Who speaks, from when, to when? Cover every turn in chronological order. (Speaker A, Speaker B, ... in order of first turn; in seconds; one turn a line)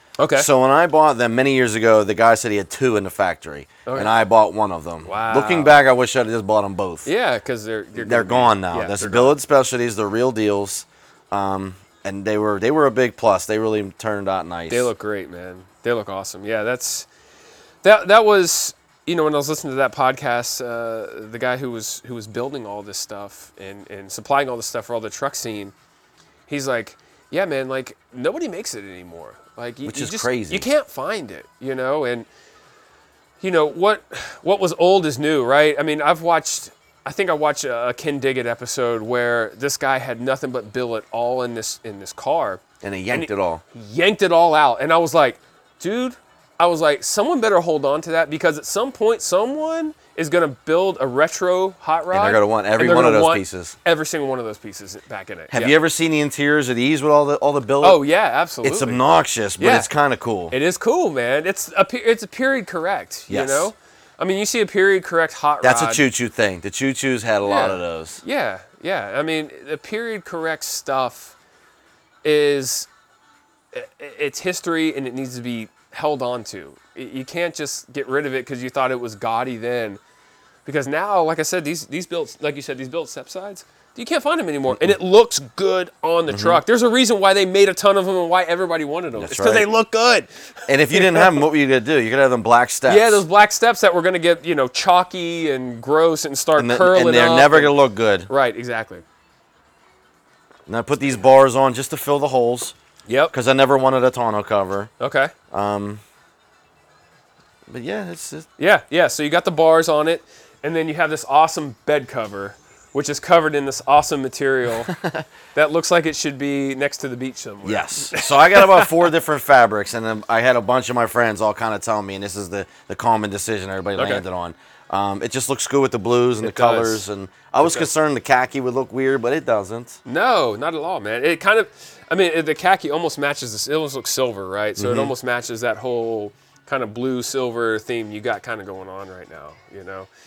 Speaker A: 0.2-0.5
Speaker B: 0.3-7.1
Speaker A: 3.9-4.1
Speaker A: 5.0-5.7
Speaker A: 7.1-9.3
Speaker B: 8.0-14.9
Speaker A: 14.7-17.1
Speaker A: 17.8-25.7
Speaker A: 26.5-32.3
Speaker B: 29.9-30.7
Speaker A: 33.4-55.8
Speaker B: 42.8-43.6
Speaker B: 52.1-53.8
Speaker B: 55.5-58.0
Speaker A: 57.8-59.0
Speaker B: 58.6-60.5
Speaker A: 59.6-59.9
Speaker A: 60.5-66.0
Speaker B: 63.3-63.7
Speaker B: 65.6-68.2
Speaker A: 67.4-71.3
Speaker A: 72.2-72.9
Speaker A: 73.7-80.0
Speaker A: 80.7-90.3
Speaker B: 84.7-85.0
Speaker B: 86.3-86.6
Speaker B: 89.2-89.7
Speaker B: 90.7-93.2
Speaker A: 90.9-91.4
Speaker A: 92.9-97.7
Speaker B: 96.6-98.3
Speaker A: 98.3-99.0
Speaker B: 100.7-102.8
Speaker A: 103.1-103.3
Speaker B: 103.3-104.9
Speaker A: 105.0-105.3
Speaker B: 105.5-106.0
Speaker B: 107.7-108.5
Speaker A: 108.6-114.9
Speaker B: 114.9-115.2
Speaker A: 115.5-119.1
Speaker B: 117.6-130.0
Speaker A: 124.0-124.2
Speaker A: 126.4-127.0
Speaker A: 127.6-127.9
Speaker A: 130.1-140.1
Speaker B: 134.8-135.1